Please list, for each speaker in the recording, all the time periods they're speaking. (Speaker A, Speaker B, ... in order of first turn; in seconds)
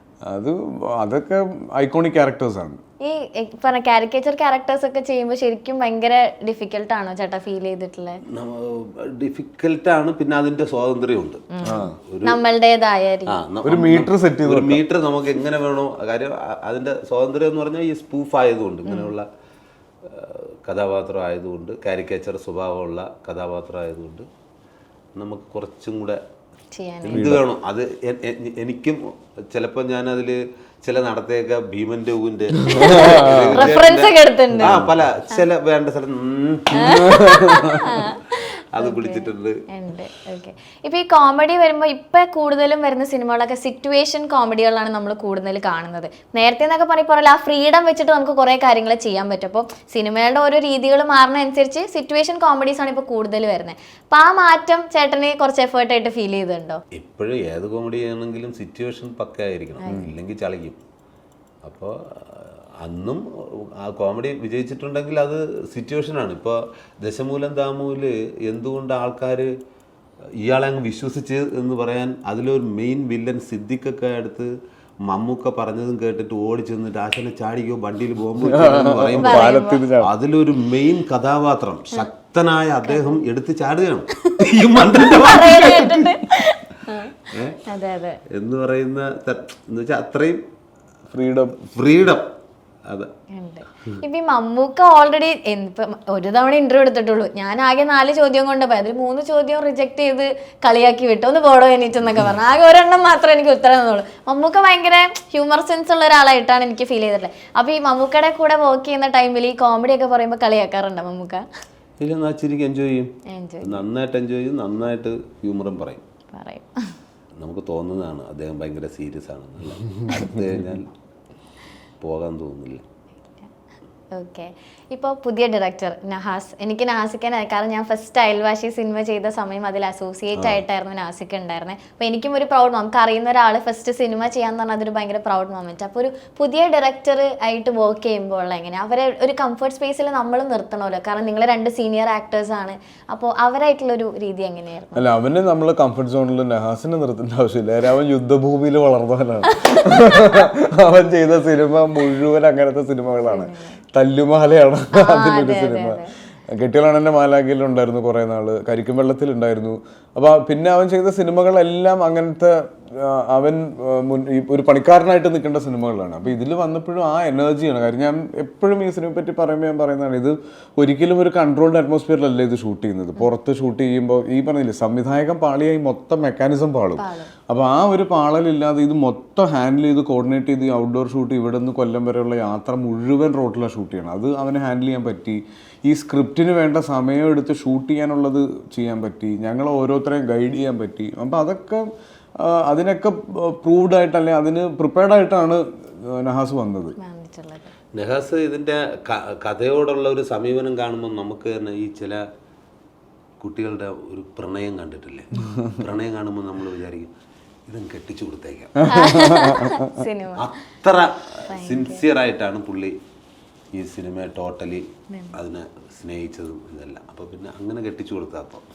Speaker A: 0.2-2.8, 11.6-11.9, 13.6-14.8, 27.1-27.4, 32.6-33.8, 34.5-35.1, 36.8-38.0, 59.9-60.1, 78.5-80.1, 91.1-91.6, 144.9-191.8, 192.4-196.9, 205.3-205.8, 208.8-209.9
Speaker B: 3.0-8.2, 11.5-13.4, 18.9-19.1, 26.7-27.3, 32.7-34.7, 36.7-56.8, 59.8-60.1, 79.2-79.8, 82.8-83.2, 85.1-88.2, 93.3-111.4, 113.3-113.8, 116.3-116.9, 124.1-145.0, 153.3-153.8, 154.9-156.1, 176.9-177.3, 197.0-197.7, 208.9-210.4, 211.5-212.0, 215.1-215.3
Speaker C: 8.3-12.4, 13.3-19.3, 20.1-24.2, 25.2-26.2, 27.0-37.1, 38.7-39.6, 57.0-60.8, 61.6-63.2, 63.8-69.5, 70.4-74.5, 75.1-86.1, 87.3-87.6, 88.3-90.4, 91.6-92.2, 112.0-113.1, 113.6-116.0, 117.4-120.9, 122.0-122.8, 197.9-202.2, 203.4-207.1, 207.7-208.8, 210.4-212.9, 213.7-218.6